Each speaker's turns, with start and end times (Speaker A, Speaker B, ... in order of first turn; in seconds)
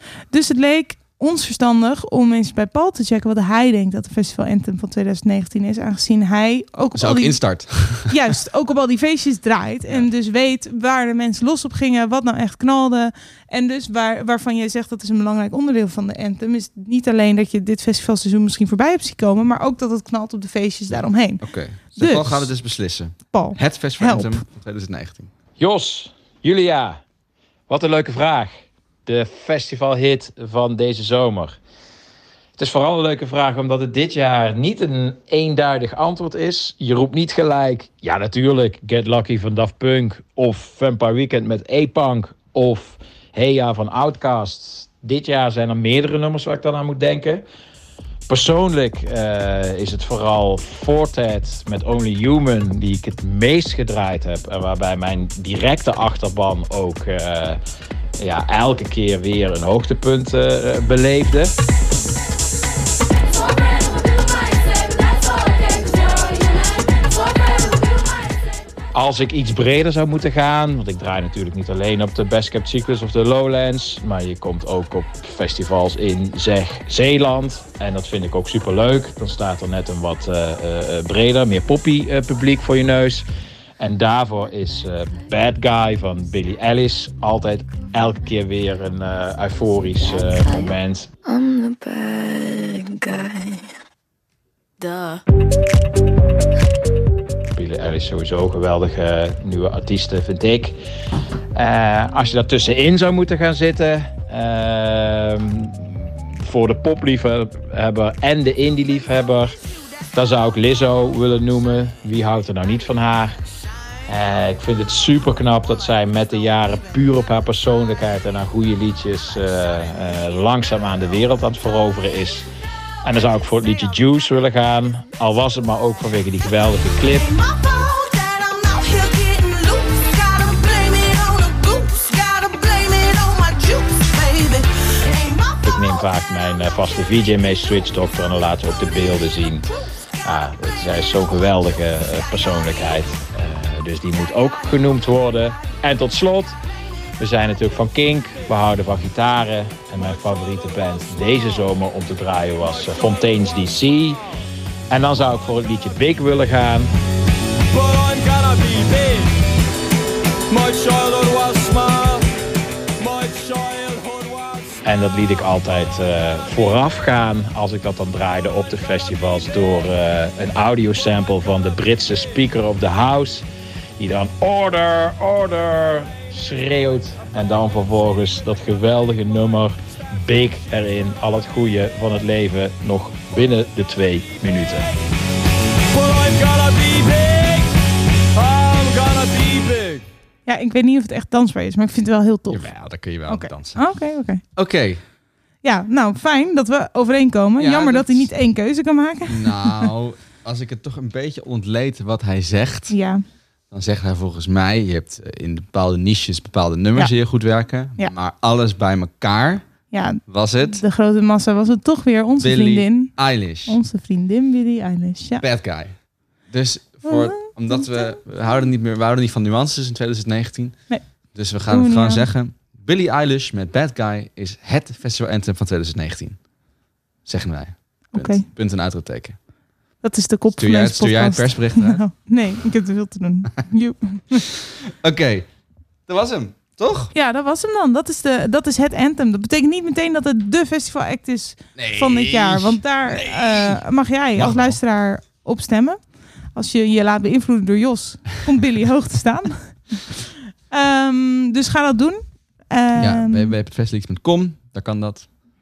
Speaker A: 0.3-22.5, 23.3-24.4, 190.4-192.7, 193.2-194.4, 195.6-199.9, 202.9-203.2, 209.9-215.4, 217.0-218.2, 221.7-222.2, 228.1-228.4, 230.0-234.4, 237.1-246.0, 246.5-250.1, 250.7-253.5
Speaker B: 6.9-8.1, 21.4-25.3, 192.5-194.0, 194.6-195.0, 197.6-198.3, 199.3-202.9, 203.7-209.6, 210.3-210.8, 212.4-213.8, 215.4-215.9, 216.5-226.4, 227.2-229.4, 230.6-232.0, 235.0-235.5, 236.1-237.1, 241.8-243.8, 244.4-244.8, 253.0-255.3
Speaker C: 25.6-27.0, 27.7-31.6, 32.6-47.4, 48.3-57.6, 58.2-61.5, 68.9-83.2, 83.8-91.1, 97.5-100.8, 101.5-109.5, 110.1-113.4, 114.1-122.5, 123.0-127.2, 135.6-139.7, 140.2-146.6, 147.2-154.2, 154.9-156.9, 164.8-173.4, 174.0-184.9
Speaker D: 90.0-90.7, 91.2-93.7, 94.8-95.2
Speaker E: 127.2-135.6, 157.7-159.4, 160.5-162.2, 163.0-164.8, 185.9-187.7, 188.3-190.1